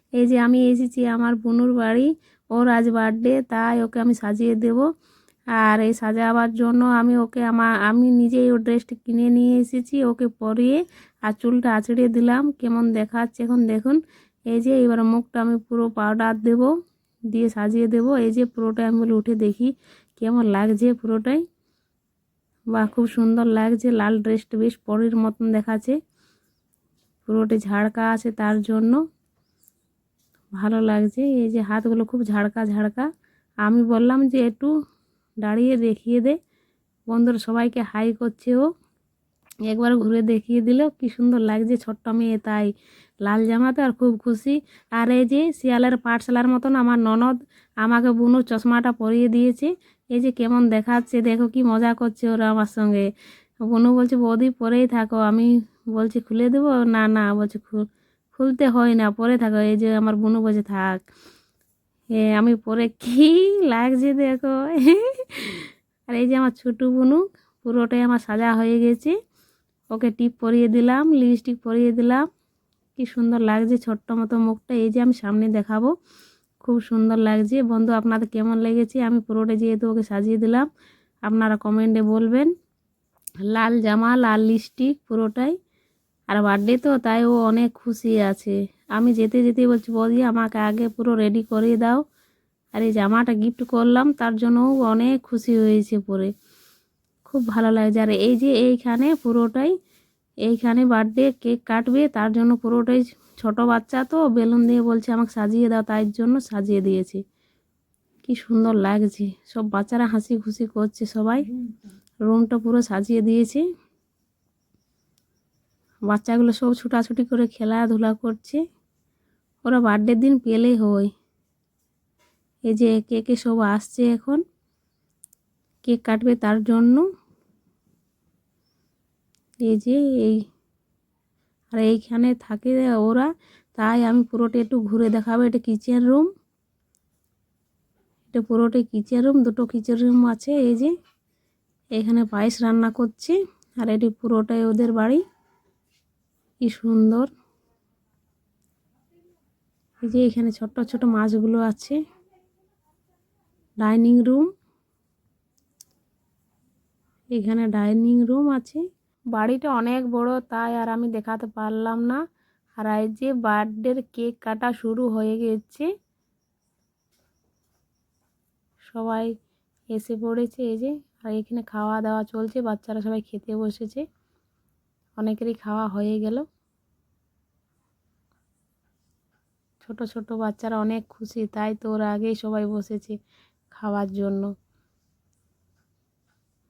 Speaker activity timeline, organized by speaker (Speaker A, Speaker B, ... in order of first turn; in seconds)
Speaker A: 0.1-4.8, 5.5-14.0, 14.5-16.7, 17.3-21.4, 22.7-26.0, 27.3-29.0, 30.6-33.1, 33.6-34.7, 35.4-36.4, 37.1-38.6, 39.6-42.7, 43.2-53.1, 53.6-57.8, 58.3-61.0, 62.1-69.1, 69.9-72.3, 73.0-75.9, 76.6-80.7, 81.3-82.5, 83.4-85.5, 86.3-92.0, 92.7-96.3, 97.2-99.7, 100.5-107.2, 108.2-111.5, 112.3-113.6, 116.1-118.6, 119.6-121.1, 122.7-124.4, 125.8-127.0, 129.6-130.4, 131.7-136.3, 138.3-140.9, 142.0-145.2, 146.6-147.3, 150.0-152.0, 153.8-154.5, 157.3-158.8, 159.3-162.2, 162.8-165.9, 168.9-169.3, 169.9-174.0, 175.2-176.4, 179.8-183.2, 183.7-184.5